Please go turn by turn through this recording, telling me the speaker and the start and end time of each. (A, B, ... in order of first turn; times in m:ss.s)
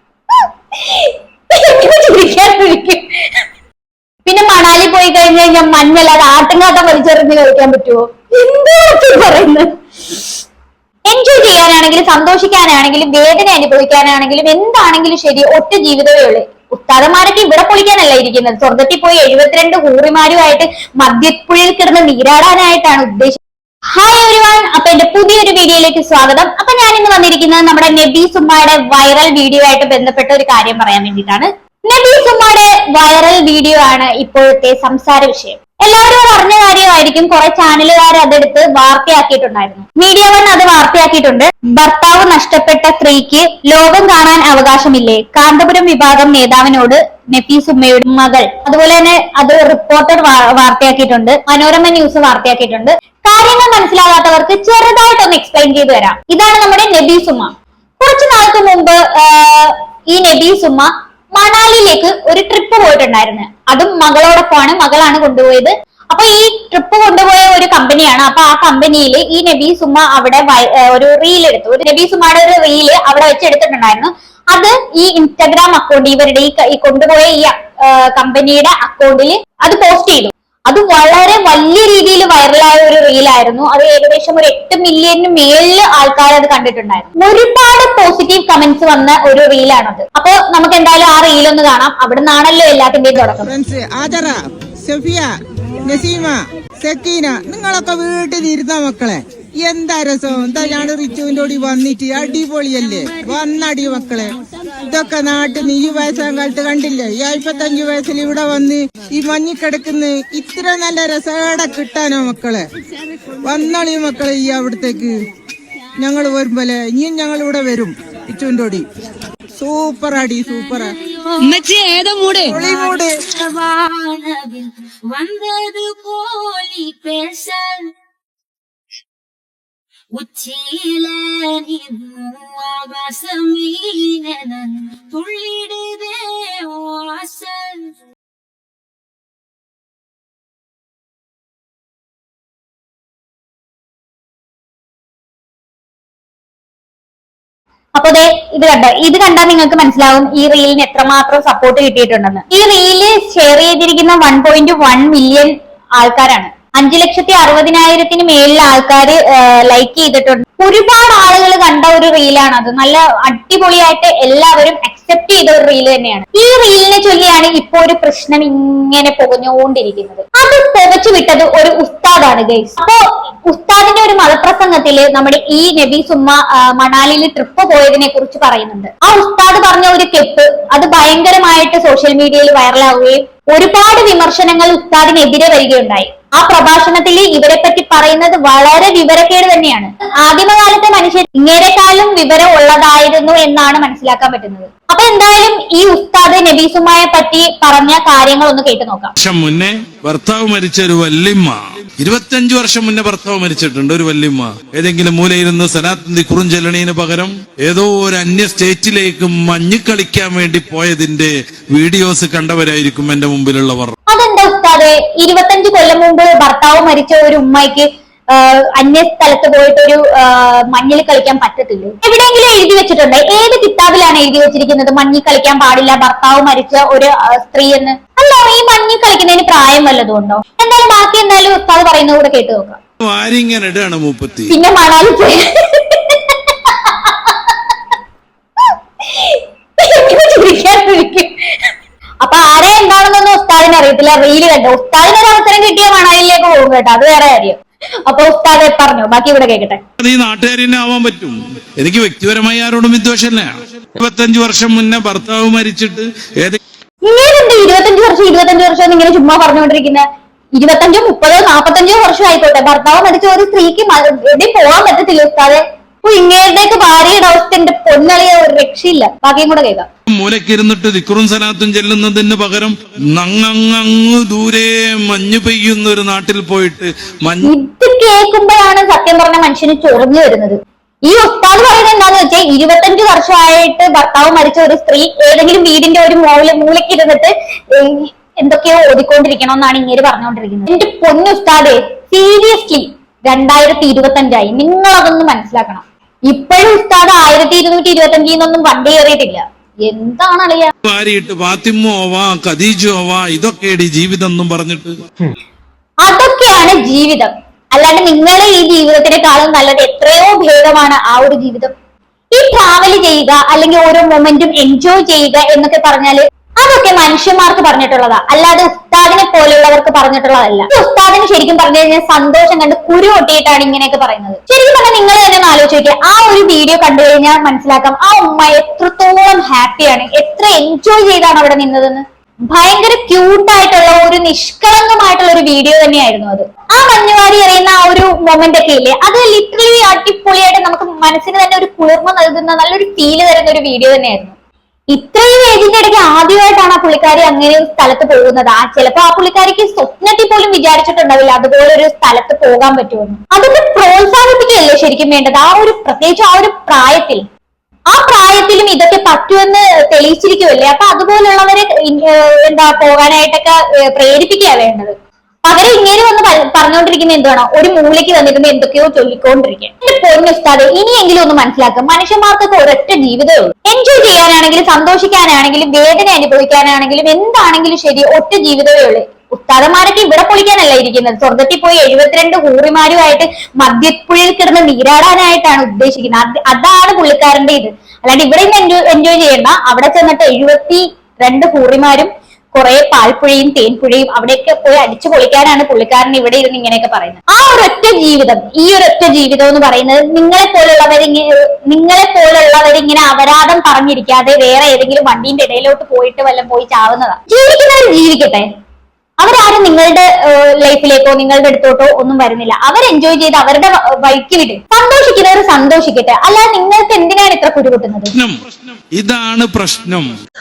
0:00.8-0:03.1 A
0:04.3-0:10.2 A
0:11.1-0:23.4 A
0:23.9-1:33.5 A
1:33.5-1:35.3 B
1:35.8-1:52.7 B
1:53.4-1:55.2 B
1:56.0-1:58.9 B
1:59.6-2:00.9 B
2:00.5-2:01.9 C
2:02.4-2:03.2 B
2:02.5-2:07.9 C
2:10.2-2:18.0 C
2:28.0-3:19.1 A
3:19.2-3:34.0 D
3:34.1-3:52.8 A
3:53.0-3:54.5 D
3:54.5-3:57.5 A
3:59.0-4:01.7 A
4:02.2-4:09.8 A
4:10.0-4:16.6 D
4:17.0-4:20.0 A
4:20.6-4:29.9 A
4:30.1-4:37.5 D
4:37.4-5:00.7 A
5:00.8-5:05.0 D
5:06.0-5:11.7 A
5:12.4-5:44.4 A
5:44.9-5:57.2 A
5:57.9-6:48.5 A
6:49.2-6:58.1 A
6:58.2-6:58.4 D
6:58.9-7:00.1 D